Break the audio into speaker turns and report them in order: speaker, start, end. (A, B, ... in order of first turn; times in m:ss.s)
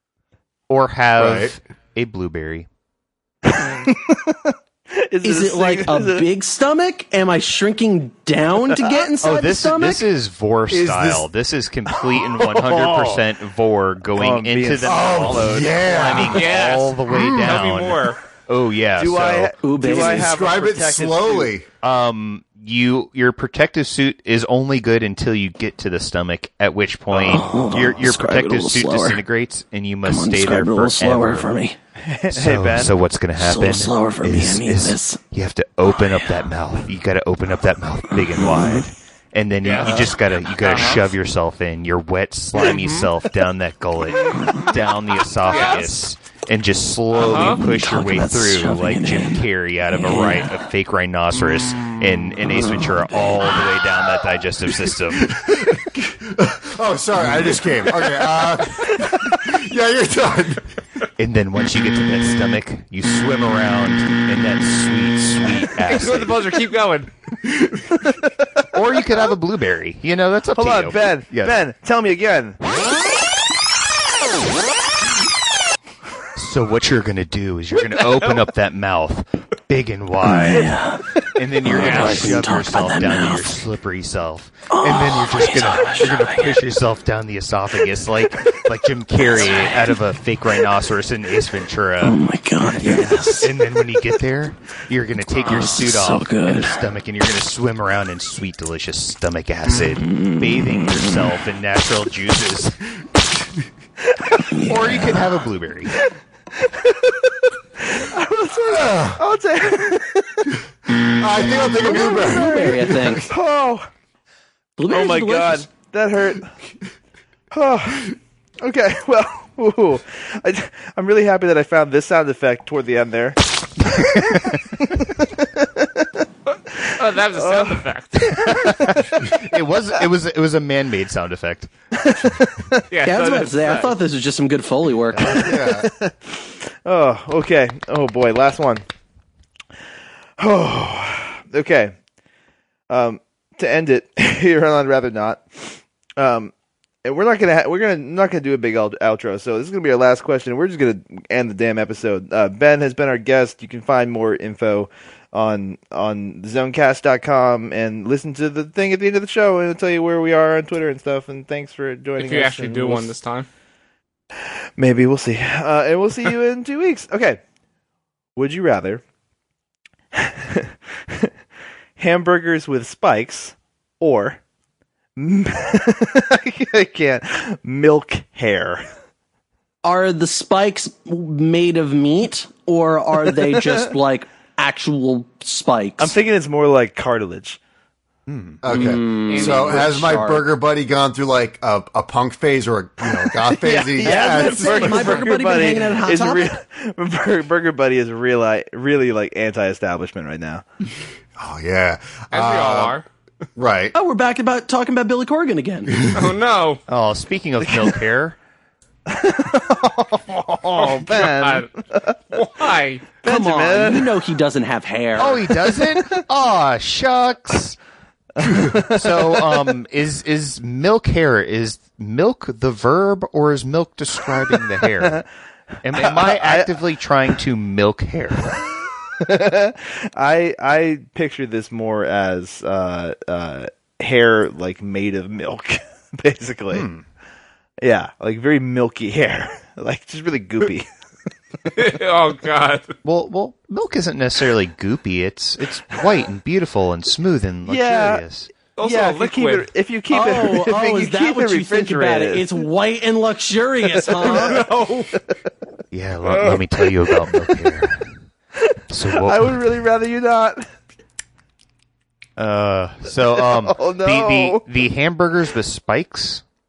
0:00.7-0:02.7 A
0:01.2-0:01.5 B
0:03.4-0:06.3 C
0:05.2-0:10.0 D
0:09.2-0:19.5 A
0:10.7-0:11.3 B
0:11.9-0:13.2 C
0:14.1-0:15.8 C
0:14.8-0:16.6 B
0:16.2-0:18.2 E
0:17.1-0:17.5 B
0:19.0-0:21.5 C
0:19.6-0:20.3 D
0:20.0-0:21.7 B
0:21.8-0:31.5 A
0:27.1-0:29.2 D
0:30.0-0:31.8 D
0:32.0-0:32.9 C
0:32.3-0:55.4 A
0:33.4-0:35.2 D
0:38.4-0:38.8 D
0:39.6-0:41.1 E
0:45.5-0:45.9 E
0:47.1-0:47.6 E
0:47.6-0:49.4 D
0:50.0-0:50.4 D
0:55.2-1:00.7 B
1:01.2-1:06.4 A
1:05.8-1:07.1 E
1:07.5-1:07.8 B
1:08.0-1:08.6 C
1:08.7-1:11.6 A
1:10.6-1:12.6 C
1:16.4-1:20.8 A
1:20.2-1:21.0 D
1:21.4-1:42.8 A
1:21.6-1:23.5 D
1:21.8-1:22.2 E
1:24.7-1:26.6 D
1:32.0-1:33.6 D
1:35.5-1:36.8 D
1:40.0-1:41.0 D
1:44.2-1:44.7 C
1:44.6-1:44.9 D
1:44.6-1:46.0 A
1:45.9-1:50.6 C
1:48.6-1:49.2 B
1:51.2-1:53.3 B
1:51.8-1:53.9 C
1:51.8-1:53.2 D
1:54.8-1:55.7 D
1:54.9-1:56.5 C
1:57.5-2:04.2 C
2:04.0-2:04.6 A
2:05.6-2:06.1 C
2:06.7-2:08.9 C
2:07.0-2:08.6 E
2:08.4-2:11.7 A
2:12.0-2:12.9 C
2:12.9-2:14.0 E
2:13.0-2:15.5 D
2:15.2-2:15.9 B
2:15.3-2:18.8 C
2:20.4-2:21.9 C
2:22.9-2:26.5 C
2:27.0-2:43.1 C
2:42.2-2:43.5 E
2:44.8-2:47.4 C
2:48.4-2:49.0 C
2:50.2-2:51.3 C
2:52.0-2:54.4 C
2:55.2-2:58.8 C
2:59.8-3:06.2 D
3:03.4-3:03.9 C
3:06.0-3:07.6 C
3:08.3-3:08.6 A
3:08.6-3:15.3 B
3:08.7-3:10.4 D
3:09.3-3:09.9 E
3:13.5-3:20.6 C
3:14.0-3:16.6 D
3:21.4-3:23.0 B
3:22.3-3:23.1 E
3:23.6-3:24.0 B
3:23.9-3:25.9 D
3:25.9-3:26.3 B
3:26.1-3:26.8 E
3:26.9-3:28.4 A
3:27.6-3:28.0 C
3:29.1-3:32.7 C
3:30.8-3:31.7 E
3:32.3-3:33.1 E
3:33.2-3:34.2 C
3:33.2-3:35.5 D
3:35.2-3:37.8 A
3:35.6-3:36.2 C
3:38.4-3:39.7 C
3:38.9-3:45.2 A
3:45.0-3:45.2 C
3:45.8-3:48.6 A
3:45.9-3:46.8 C
3:49.2-3:56.9 C
3:57.8-4:00.9 C
4:01.7-4:02.9 E
4:03.0-4:08.5 A
4:07.6-4:08.2 C
4:08.8-4:09.7 E
4:08.8-4:12.6 C
4:10.1-4:14.7 D
4:14.1-4:14.9 E
4:14.2-4:15.4 C
4:15.9-4:18.2 A
4:17.2-4:17.5 C
4:18.6-4:20.7 C
4:18.9-4:19.6 A
4:22.4-4:26.4 A
4:23.3-4:24.6 C